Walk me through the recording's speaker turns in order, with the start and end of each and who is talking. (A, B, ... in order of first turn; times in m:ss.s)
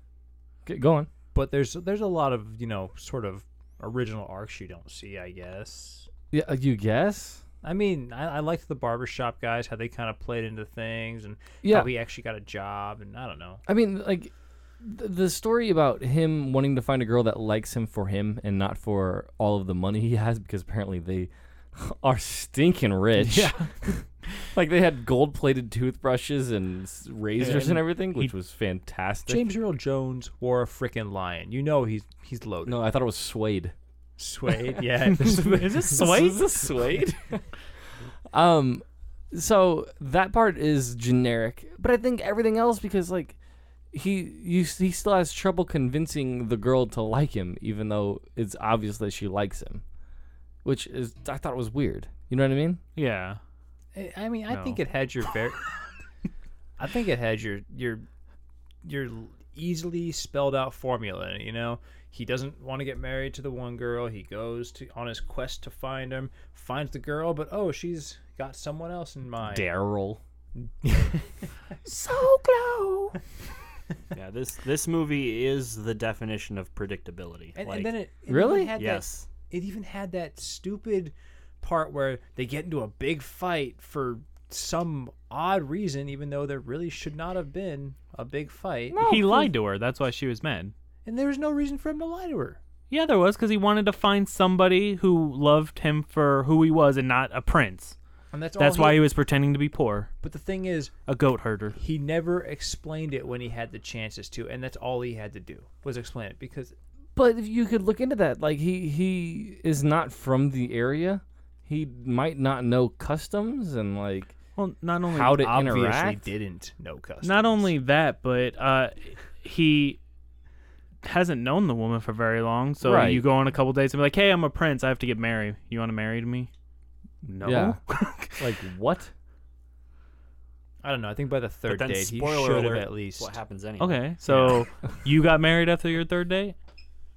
0:00.7-0:01.1 A
0:01.3-0:06.1 B
0:06.3-0:07.4 A
0:07.6-0:13.6 B
0:11.6-0:11.9 A
0:13.7-0:29.5 A
0:23.2-0:23.7 C
0:27.4-0:28.3 C
0:29.3-0:32.8 B
0:32.6-0:33.7 A
0:34.2-0:36.1 B
0:35.3-0:36.4 C
0:35.8-0:37.5 A
0:38.3-0:43.4 A
0:43.9-0:49.8 A
0:50.6-0:52.8 A
0:53.0-0:53.4 C
0:54.0-0:55.7 B
0:54.5-0:54.8 C
0:56.8-0:58.1 B
0:58.8-1:09.7 B
1:09.4-1:10.2 A
1:10.6-1:11.5 B
1:11.9-1:13.1 C
1:14.1-1:17.9 D
1:17.6-1:29.0 B
1:18.3-1:18.7 A
1:18.8-1:19.3 D
1:28.9-1:29.5 A
1:29.0-1:30.7 C
1:31.0-1:32.6 B
1:32.9-1:38.0 C
1:38.3-1:39.1 B
1:38.6-1:40.1 C
1:40.2-1:41.0 B
1:41.1-1:41.8 C
1:41.8-1:46.8 B
1:47.2-1:54.4 A
1:54.6-1:55.5 C
1:55.1-1:56.3 A
1:55.3-1:57.7 B
1:57.2-2:00.0 C
2:01.0-2:06.5 C
2:02.8-2:03.2 A
2:07.2-2:08.4 C
2:07.4-2:09.1 A
2:10.8-2:13.4 B
2:11.7-2:14.1 D
2:13.8-2:16.6 C